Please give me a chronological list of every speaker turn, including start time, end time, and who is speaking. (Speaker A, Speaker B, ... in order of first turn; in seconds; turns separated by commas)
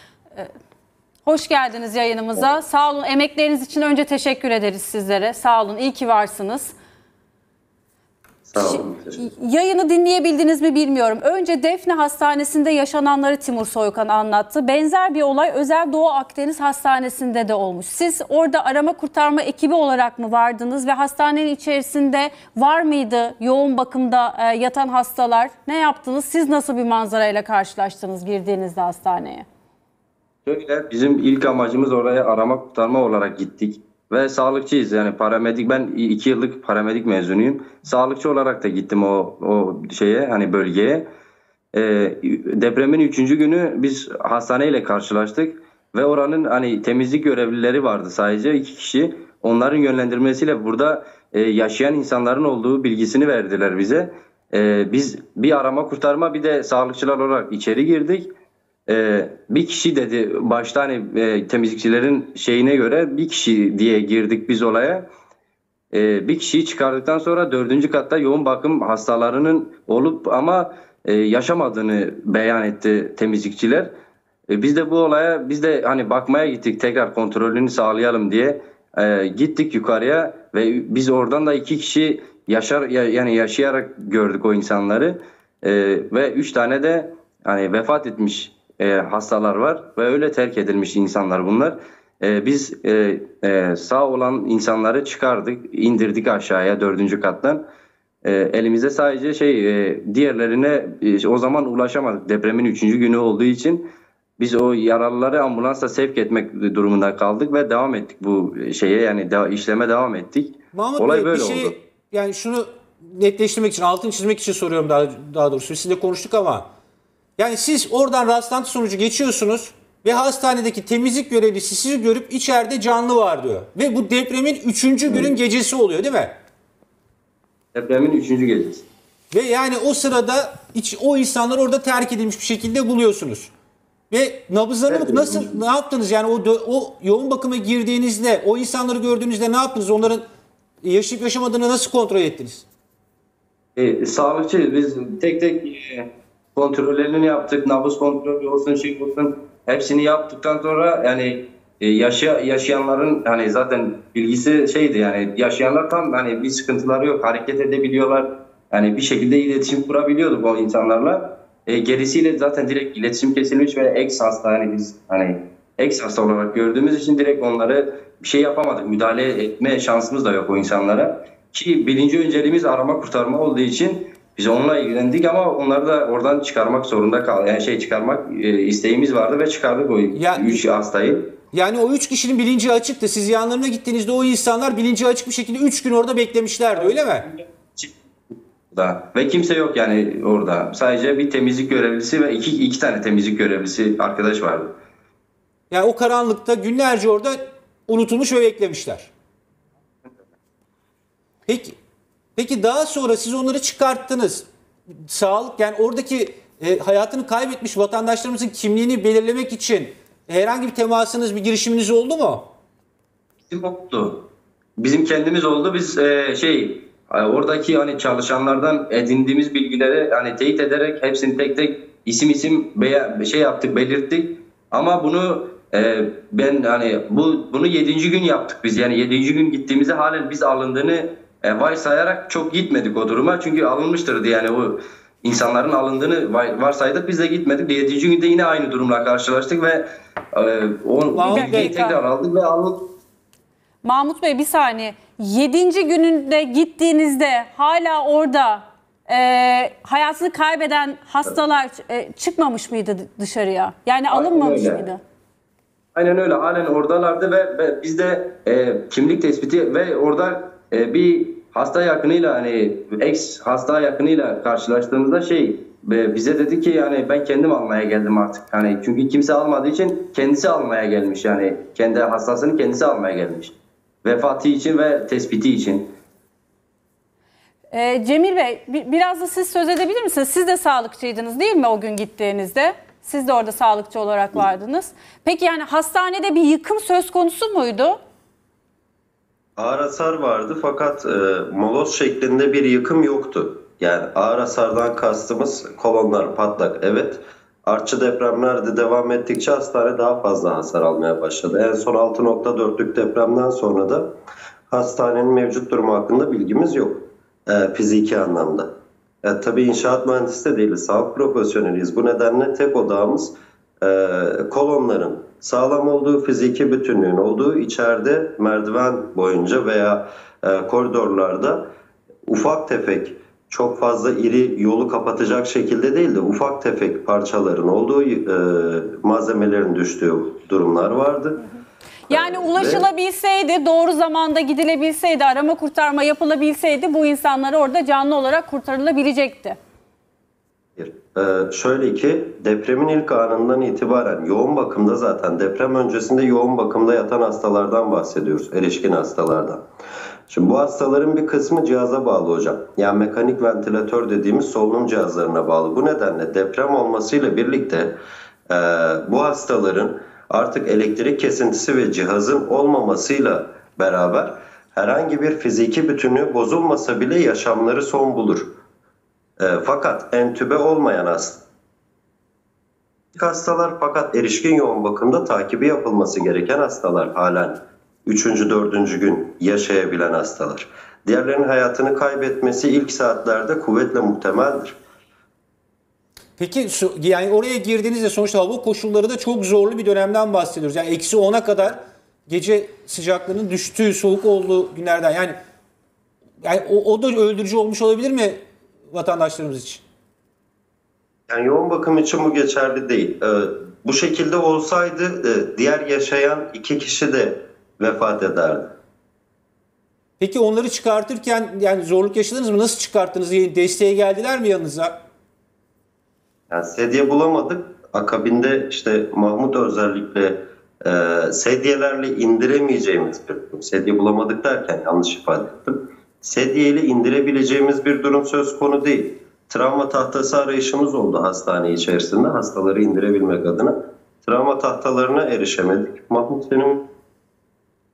Speaker A: 1.2-6.7, Speaker B: 8.5-9.2, Speaker A: 8.6-29.5, Speaker C: 30.5-41.0, Speaker C: 41.7-58.3, Speaker C: 58.9-65.0, Speaker C: 65.9-73.9, Speaker C: 74.5-97.6, Speaker C: 98.2-103.8, Speaker C: 104.4-111.7, Speaker D: 110.7-116.7, Speaker D: 117.4-126.3, Speaker C: 127.7-128.8, Speaker D: 129.3-133.5, Speaker D: 134.1-140.2, Speaker C: 134.9-135.6, Speaker D: 140.8-142.7, Speaker C: 143.8-181.2, Speaker D: 180.1-180.6, Speaker D: 181.5-187.3, Speaker C: 186.8-187.9, Speaker C: 188.7-194.7, Speaker D: 195.7-199.1, Speaker D: 201.5-201.8, Speaker D: 202.4-204.5, Speaker D: 205.1-212.5, Speaker C: 213.5-214.2, Speaker C: 214.8-239.8, Speaker C: 240.3-242.8, Speaker D: 241.1-241.8, Speaker A: 241.3-242.0, Speaker A: 243.8-255.0, Speaker C: 254.1-254.9, Speaker C: 255.9-273.5, Speaker C: 274.0-275.9, Speaker A: 277.7-288.0, Speaker B: 289.6-304.1, Speaker B: 304.7-308.7, Speaker B: 309.2-321.6, Speaker B: 322.3-331.4, Speaker A: 332.1-339.6, Speaker B: 332.1-332.9, Speaker B: 340.8-349.6, Speaker B: 350.3-357.9, Speaker B: 358.5-368.5, Speaker B: 369.4-371.4, Speaker B: 373.1-384.8, Speaker D: 386.4-395.4, Speaker D: 396.4-398.4, Speaker D: 398.9-399.8, Speaker B: 401.3-408.7, Speaker D: 410.2-414.9, Speaker B: 416.5-433.7, Speaker B: 434.2-436.8